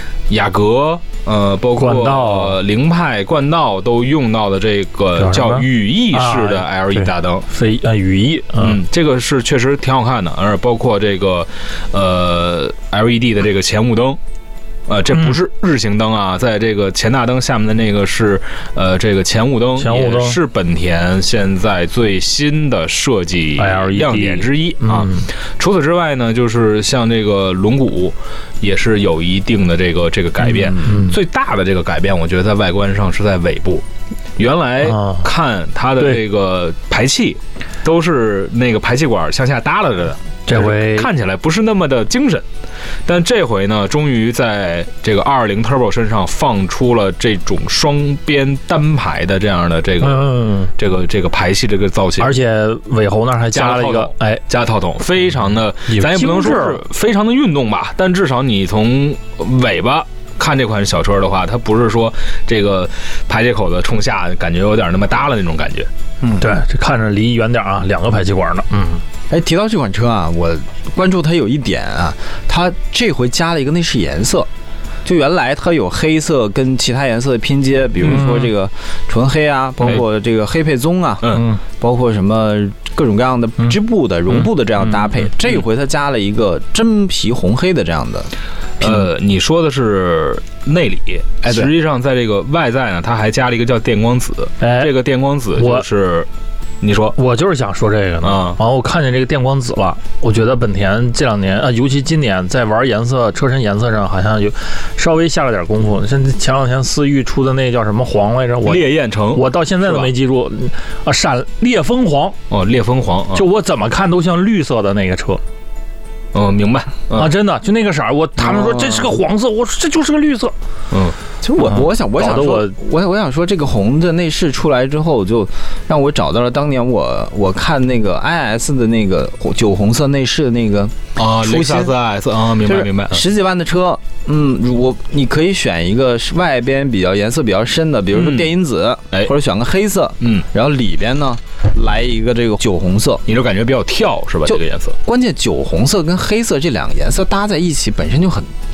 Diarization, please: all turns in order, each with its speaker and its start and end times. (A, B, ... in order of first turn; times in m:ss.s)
0:00.3-0:07.4 A
0:01.8-0:02.6 B
0:05.2-0:06.6 B
0:07.5-0:08.8 B
0:08.5-0:14.2 A
0:14.9-0:33.8 A
0:19.8-0:20.4 B
0:23.6-0:25.3 B
0:30.9-0:31.2 B
0:34.4-0:42.4 A
0:35.0-0:35.2 B
0:40.5-0:41.1 B
0:43.1-0:52.4 A
0:50.0-0:50.7 B
0:52.2-0:54.4 B
0:53.5-1:05.9 A
0:55.9-0:56.8 B
1:06.4-1:09.0 B
1:09.3-1:14.5 C
1:15.0-1:29.1 C
1:18.2-1:18.5 B
1:21.4-1:21.6 B
1:28.8-1:36.3 A
1:31.4-1:31.7 C
1:34.6-1:34.9 B
1:36.8-1:37.2 A
1:37.2-1:52.4 B
1:38.2-1:38.6 A
1:48.6-1:50.1 A
1:52.5-1:53.4 A
1:53.4-1:55.4 B
1:56.3-1:57.3 A
1:57.2-2:00.6 B
2:00.9-2:01.2 A
2:01.4-2:11.9 C
2:02.2-2:02.7 B
2:11.2-2:13.2 A
2:12.6-2:23.2 C
2:18.1-2:18.5 A
2:20.2-2:20.5 A
2:23.2-2:25.0 A
2:24.4-2:28.5 C